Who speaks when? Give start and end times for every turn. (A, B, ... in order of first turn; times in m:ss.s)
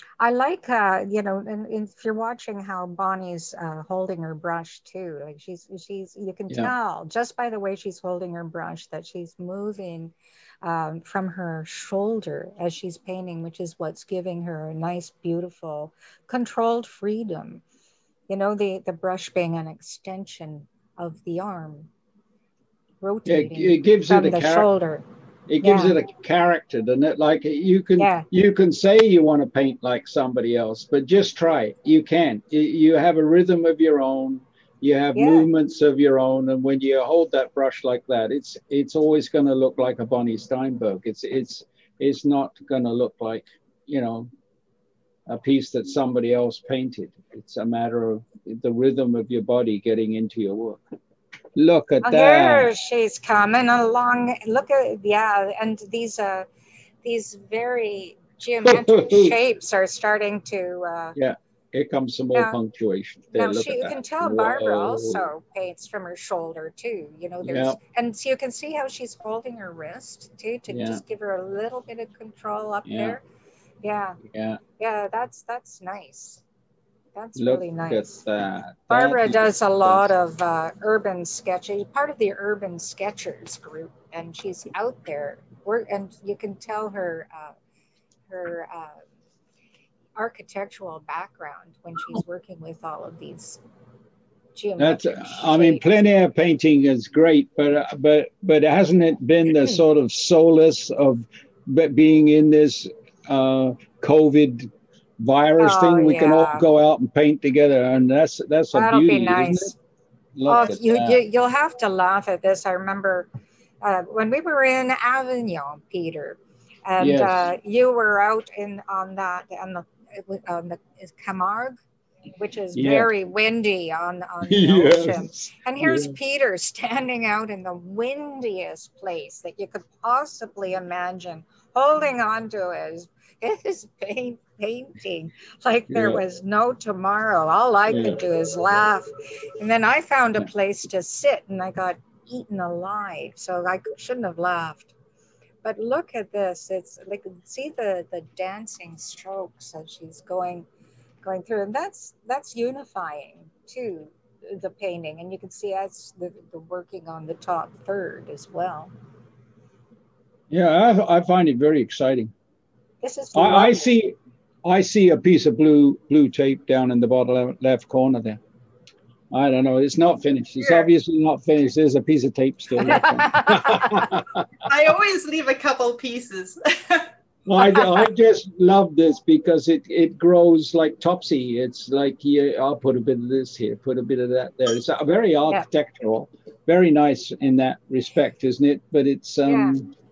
0:00.2-0:17.6 A
0:18.3-0:21.9 A
0:23.0-0:25.0 A
0:23.3-0:24.7 B
0:25.5-0:44.3 B
0:25.6-0:26.0 A
0:28.0-0:28.2 A
0:35.2-0:35.5 A
0:45.3-0:50.8 B
0:51.6-0:52.7 B
0:52.0-0:56.5 A
0:57.0-1:01.2 A
0:58.6-0:59.4 B
1:01.2-1:05.3 B
1:03.3-1:13.2 A
1:07.4-1:07.8 B
1:10.7-1:11.0 B
1:12.9-1:13.2 B
1:13.8-1:14.2 A
1:14.3-1:14.6 B
1:14.8-1:16.4 A
1:17.2-1:18.2 A
1:17.4-1:20.1 B
1:18.9-1:27.6 A
1:28.3-1:29.0 A
1:30.2-1:33.6 A
1:34.6-1:35.8 A
1:34.8-1:49.7 B
1:45.6-1:46.6 A
1:48.7-1:49.8 A
1:50.4-1:51.2 B
1:50.5-1:53.3 A
1:53.8-2:01.8 A
1:57.0-1:57.5 B
2:02.4-2:24.9 A
2:02.7-2:03.1 B
2:04.4-2:06.2 B
2:15.9-2:16.2 B
2:17.9-2:18.2 B
2:25.6-2:30.7 A
2:31.2-2:38.9 A
2:40.5-2:42.3 B
2:43.0-2:43.8 A
2:43.3-2:48.4 B
2:49.3-2:54.5 B
2:50.6-2:50.9 C
2:52.8-2:54.1 A
2:54.7-2:57.1 C
2:57.5-3:09.9 B
3:09.5-3:09.8 A